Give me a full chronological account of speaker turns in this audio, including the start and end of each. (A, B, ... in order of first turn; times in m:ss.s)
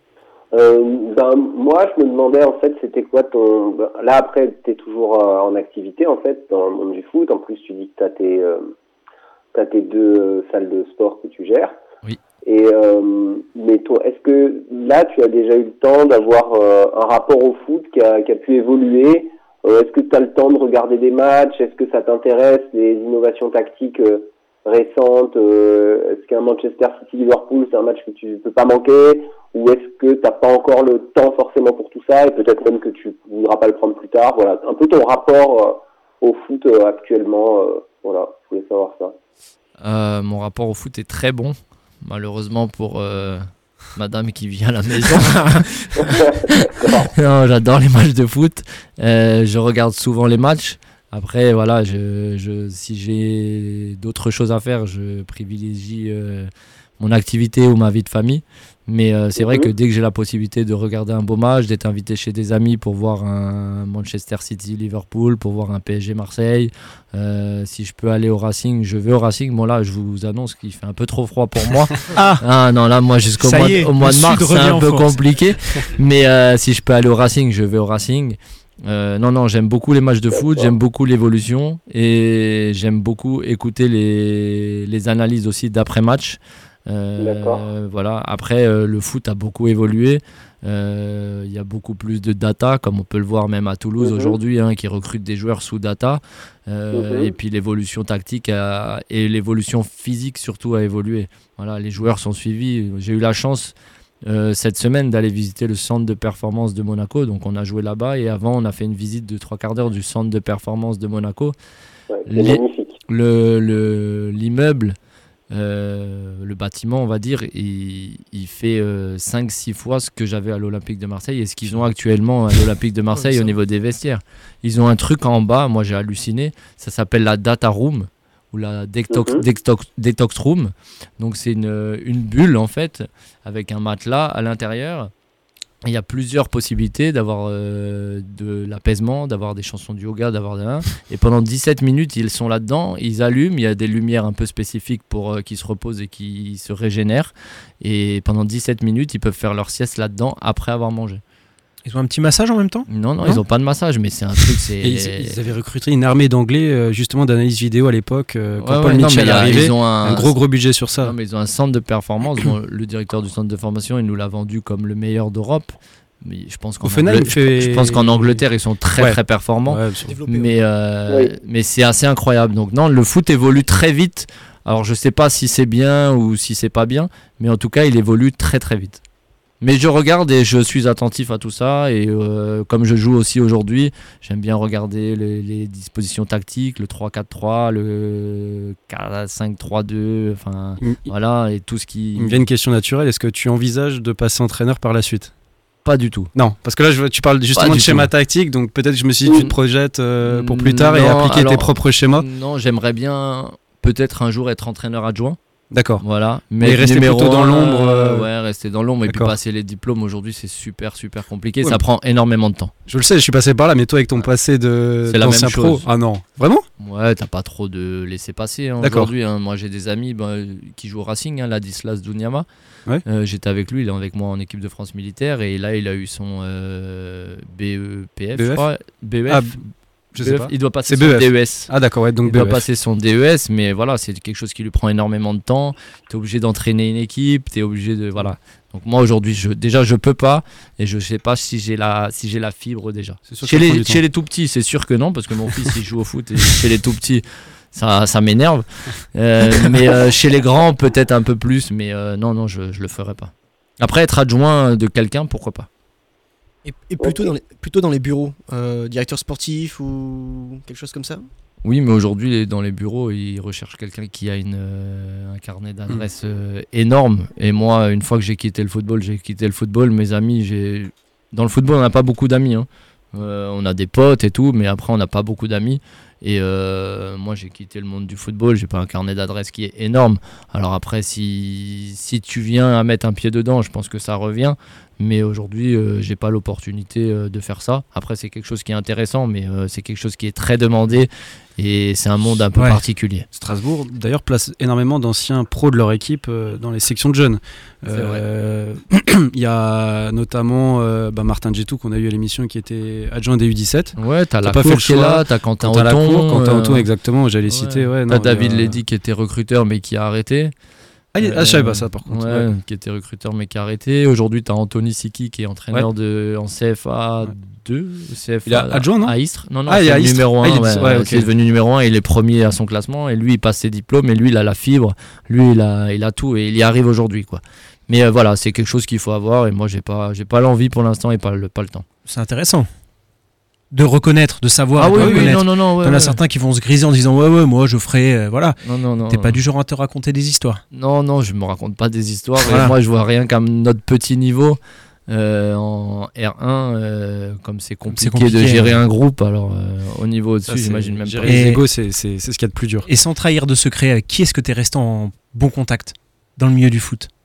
0:00.5-0:08.7 A
0:09.5-0:11.7 A
0:12.4-0:39.1 A
0:39.8-1:43.7 B
0:46.1-0:47.1 A
0:59.4-0:59.7 A
1:12.1-1:12.4 C
1:13.4-1:15.2 C
1:20.3-1:20.7 A
1:27.2-1:27.6 A
1:34.0-1:34.3 A
1:36.9-1:37.3 A
1:44.2-1:51.5 B
1:52.1-1:53.0 A
1:52.3-1:55.0 B
1:55.5-2:15.1 B
2:09.1-2:09.4 A
2:15.8-2:31.2 B
2:31.8-2:32.9 C
2:32.9-2:35.4 B
2:34.8-2:41.1 D
2:38.6-2:40.3 B
2:41.0-2:59.0 B
2:46.8-2:48.4 D
2:49.0-2:50.1 D
2:50.0-2:50.5 E
2:59.6-3:12.4 B
3:10.8-3:11.1 D
3:12.2-3:15.3 D
3:15.8-3:16.3 B
3:16.3-3:22.2 D
3:17.5-3:18.1 B
3:19.3-3:19.5 B
3:20.2-3:25.4 B
3:25.7-3:26.0 D
3:26.0-3:32.7 B
3:26.6-3:28.3 D
3:29.1-3:29.3 D
3:32.9-3:36.6 D
3:35.1-3:35.8 B
3:36.8-3:42.4 B
3:38.8-3:39.1 D
3:43.0-3:49.6 B
3:48.3-3:48.6 D
3:49.3-3:49.5 D
3:50.1-3:52.6 D
3:50.2-3:51.7 B
3:52.2-4:15.7 B
4:03.3-4:04.0 D
4:16.6-4:21.2 E
4:17.0-4:17.3 A
4:21.6-4:53.2 B
4:52.5-4:52.8 C
4:53.3-5:08.8 D
4:57.9-4:58.2 B
5:04.0-5:06.9 B
5:07.5-5:10.5 B
5:11.1-5:12.5 D
5:11.2-5:31.8 B
5:18.4-5:19.2 D
5:19.7-5:21.3 D
5:32.1-5:32.7 C
5:33.7-5:40.6 C
5:34.8-5:36.2 B
5:35.0-5:35.4 D
5:38.6-5:39.4 B
5:40.7-5:51.5 B
5:42.4-5:42.8 C
5:47.9-5:48.8 C
5:50.5-5:52.9 D
5:51.2-5:51.6 C
5:52.8-5:57.1 C